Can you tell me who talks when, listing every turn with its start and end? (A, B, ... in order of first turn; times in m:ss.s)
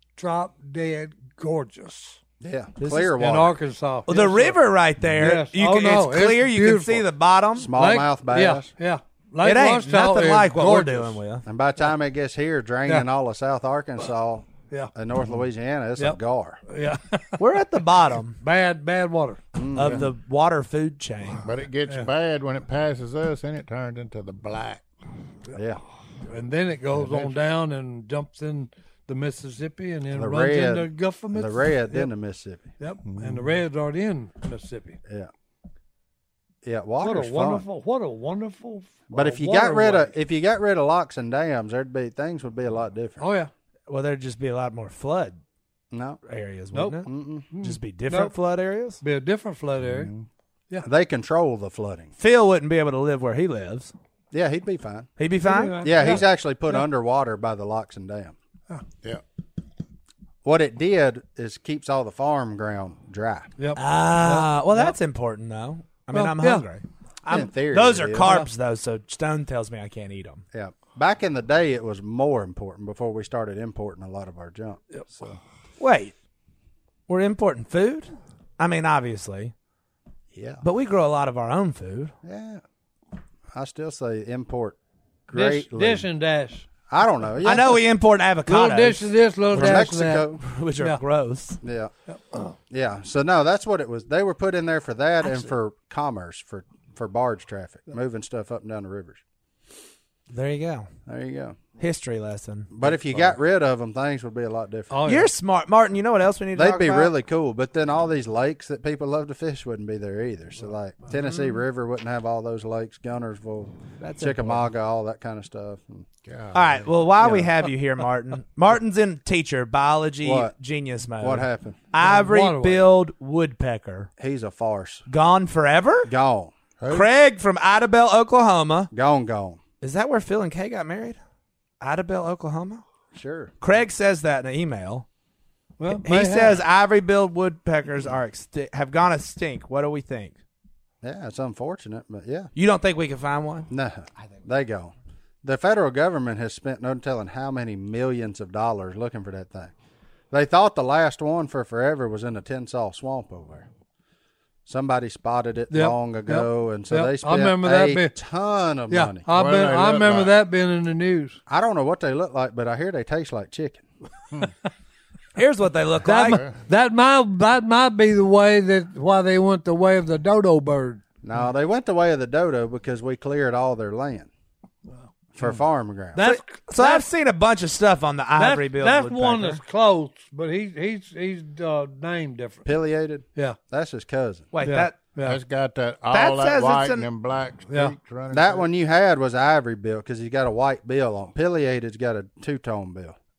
0:00.2-0:02.2 A
0:02.4-0:03.6 B
0:02.8-0:03.1 C
0:03.2-0:04.6 A
0:04.1-0:07.7 C
0:05.2-0:07.1 A
0:07.6-0:08.7 B
0:07.7-0:11.2 A
0:09.4-0:11.4 C
0:11.4-0:16.6 B
0:16.0-0:17.4 A
0:17.4-0:18.4 C
0:18.4-0:19.4 A
0:19.5-0:20.1 B
0:19.7-0:21.4 C
0:19.8-0:20.1 D
0:21.4-0:24.8 D
0:25.5-0:25.8 B
0:26.3-0:32.1 A
0:27.0-0:27.3 D
0:30.1-0:32.7 B
0:32.8-0:35.0 A
0:33.0-0:33.6 D
0:36.6-0:37.6 B
0:37.0-0:40.1 A
0:39.1-0:43.2 B
0:43.2-0:43.5 A
0:43.9-0:45.4 C
0:45.9-0:46.2 B
0:46.2-0:47.1 C
0:46.7-0:48.3 A
0:47.0-0:47.5 B
0:47.6-0:49.0 C
0:49.0-0:50.1 A
0:49.8-0:50.1 D
0:50.8-0:52.1 B
0:52.2-0:53.9 C
0:54.3-0:55.1 B
0:55.2-0:56.2 C
0:55.4-0:56.8 A
0:55.8-0:58.4 B
1:00.4-1:03.5 B
1:03.6-1:05.0 A
1:03.8-1:10.4 C
1:06.1-1:06.6 A
1:07.3-1:08.3 B
1:08.2-1:08.5 A
1:10.5-1:15.3 B
1:15.8-1:16.1 C
1:17.1-1:19.5 C
1:20.3-1:20.6 B
1:20.6-1:22.1 C
1:22.2-1:22.6 B
1:23.5-1:24.8 B
1:25.3-1:26.0 B
1:25.3-1:26.7 A
1:26.9-1:27.8 B
1:27.4-1:29.9 C
1:28.4-1:31.0 A
1:29.5-1:30.4 B
1:30.4-1:31.6 C
1:31.6-1:31.9 B
1:32.1-1:32.5 A
1:32.7-1:39.2 B
1:35.2-1:35.5 A
1:40.3-1:40.9 C
1:41.1-1:41.6 B
1:41.8-1:42.7 C
1:42.7-1:45.0 B
1:42.8-1:43.4 D
1:44.9-1:45.3 A
1:45.0-1:47.1 C
1:46.5-1:56.0 B
1:54.0-1:54.7 C
1:56.2-1:56.9 D
1:56.5-2:04.1 C
1:57.2-1:57.5 B
2:00.2-2:00.5 B
2:01.2-2:01.8 B
2:02.0-2:02.9 A
2:04.2-2:05.0 B
2:05.1-2:06.1 C
2:06.0-2:06.5 B
2:06.8-2:07.1 D
2:06.9-2:08.9 C
2:08.9-2:09.6 B
2:09.8-2:11.2 C
2:11.8-2:12.8 C
2:13.1-2:13.5 B
2:13.6-2:15.0 C
2:15.8-2:16.6 A
2:15.9-2:20.3 C
2:21.0-2:22.5 B
2:22.6-2:23.7 C
2:23.7-2:29.7 B
2:30.3-2:33.7 B
2:34.6-2:39.3 B
2:35.7-2:38.1 A
2:38.9-2:41.4 A
2:39.3-2:40.3 D
2:41.5-2:43.8 B
2:45.4-2:46.4 C
2:46.0-2:51.0 A
2:46.3-2:46.6 D
2:51.2-2:54.3 B
2:55.3-2:56.2 B
2:56.1-2:57.1 A
2:56.2-2:59.6 C
2:58.4-3:02.7 A
3:02.6-3:04.5 B
3:04.5-3:05.0 C
3:04.6-3:05.4 A
3:05.2-3:08.7 D
3:06.1-3:07.1 C
3:07.7-3:07.9 A
3:08.3-3:13.2 B